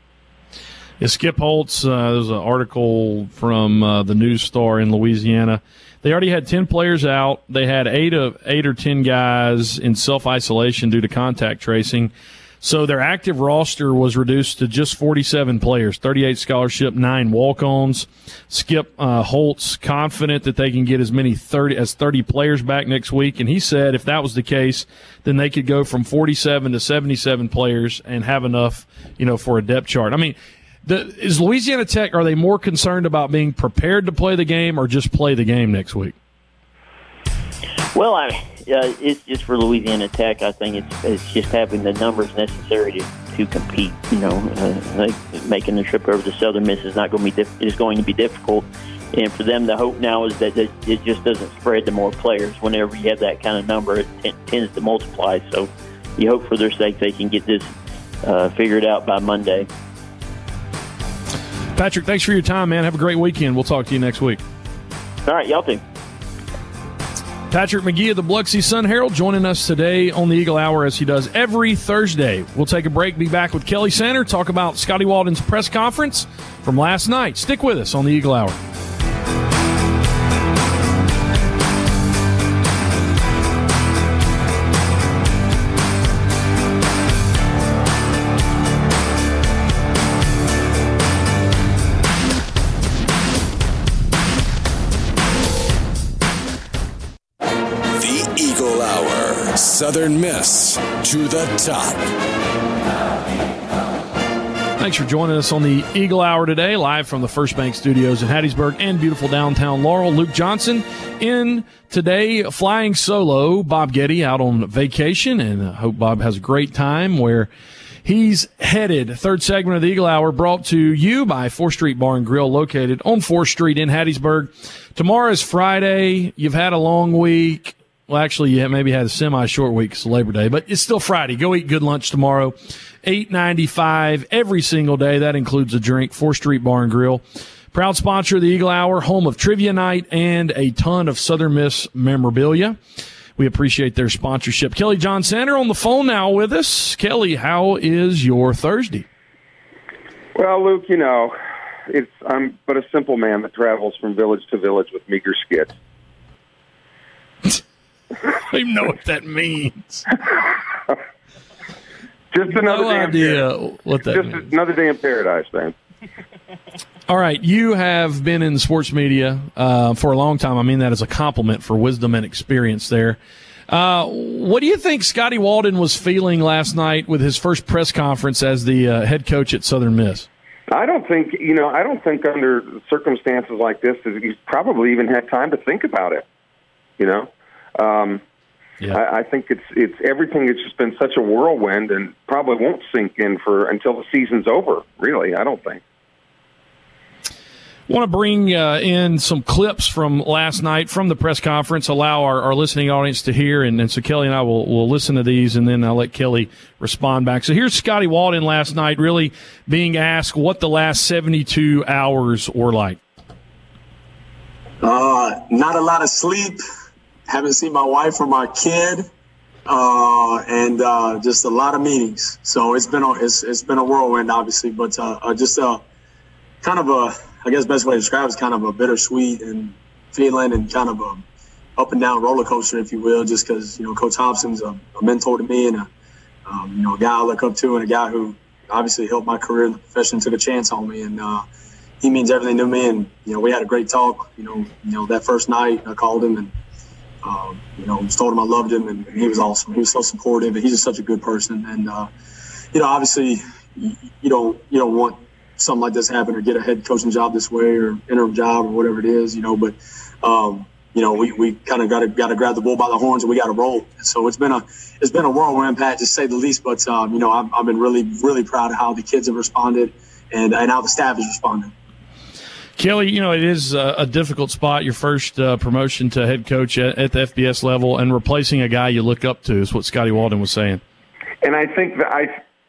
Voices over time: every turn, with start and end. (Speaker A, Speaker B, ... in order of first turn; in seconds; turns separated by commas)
Speaker A: 1.0-36.1, Speaker B: 37.9-57.7, Speaker B: 58.2-59.7, Speaker A: 61.7-64.4, Speaker B: 65.2-65.8, Speaker A: 67.5-78.6, Speaker C: 97.9-102.1, Speaker A: 104.8-117.5, Speaker A: 118.0-142.8, Speaker A: 143.4-149.1, Speaker D: 150.3-151.3, Speaker D: 151.9-155.7, Speaker A: 158.2-160.2, Speaker D: 162.3-163.4, Speaker A: 162.5-164.5, Speaker D: 164.1-165.7, Speaker A: 167.1-173.2, Speaker A: 173.7-180.3, Speaker D: 180.7-186.2, Speaker D: 187.0-188.2, Speaker D: 188.9-195.8, Speaker A: 197.9-213.0, Speaker E: 214.8-216.6, Speaker E: 217.3-219.1, Speaker E: 219.7-225.8, Speaker E: 226.6-231.2, Speaker E: 231.8-235.9, Speaker E: 236.4-241.4, Speaker E: 242.0-246.5, Speaker E: 247.2-252.1, Speaker E: 252.7-271.7, Speaker A: 272.8-280.8, Speaker D: 281.4-282.4